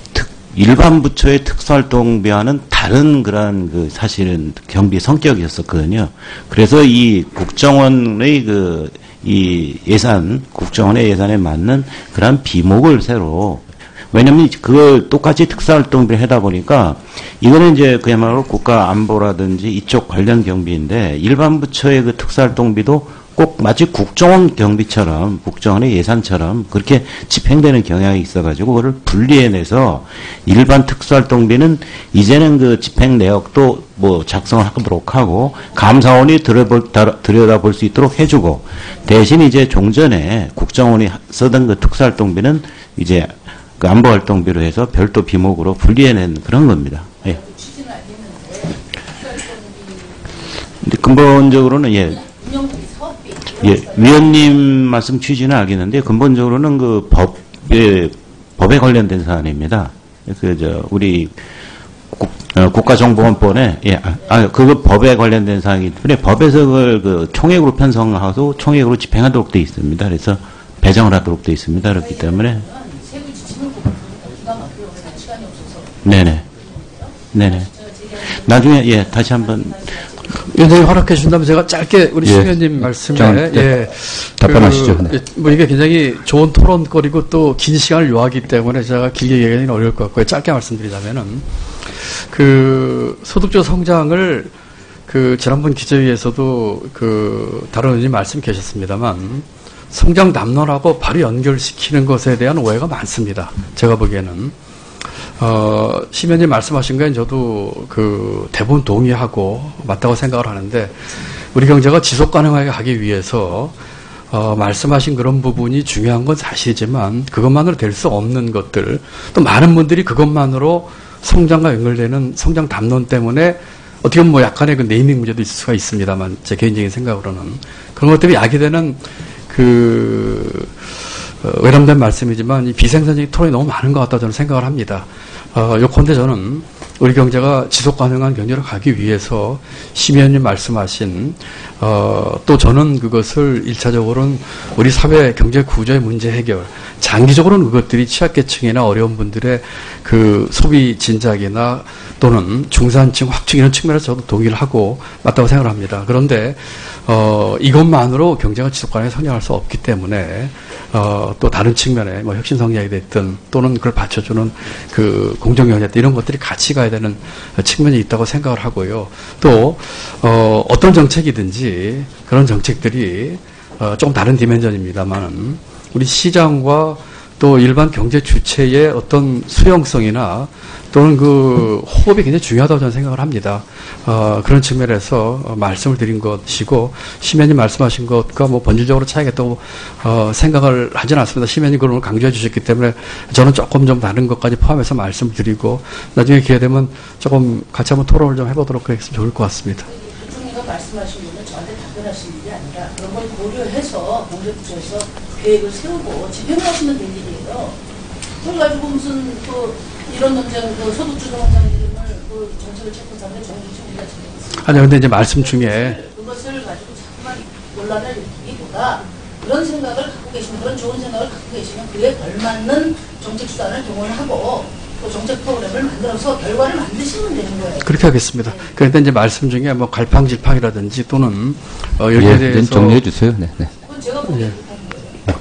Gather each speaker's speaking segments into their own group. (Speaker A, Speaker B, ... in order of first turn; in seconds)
Speaker A: 0.1-47.4, 50.8-52.2, 53.6-61.4, 62.1-72.7, 76.0-76.5, 77.3-77.7, 78.3-79.8
Speaker B: 47.3-50.3, 52.1-54.7, 72.1-76.0, 76.6-77.1, 77.7-78.5, 79.7-80.1, 199.9-207.8, 208.4-227.9, 233.8-235.2
Speaker C: 80.3-91.4, 92.0-94.5, 95.1-104.5, 105.4-111.0, 111.5-113.7, 114.3-130.7, 131.4-199.9, 214.6-216.0, 227.8-233.1, 234.3-234.5
Speaker D: 82.2-82.6, 83.1-83.7, 84.4-85.2, 232.1-233.7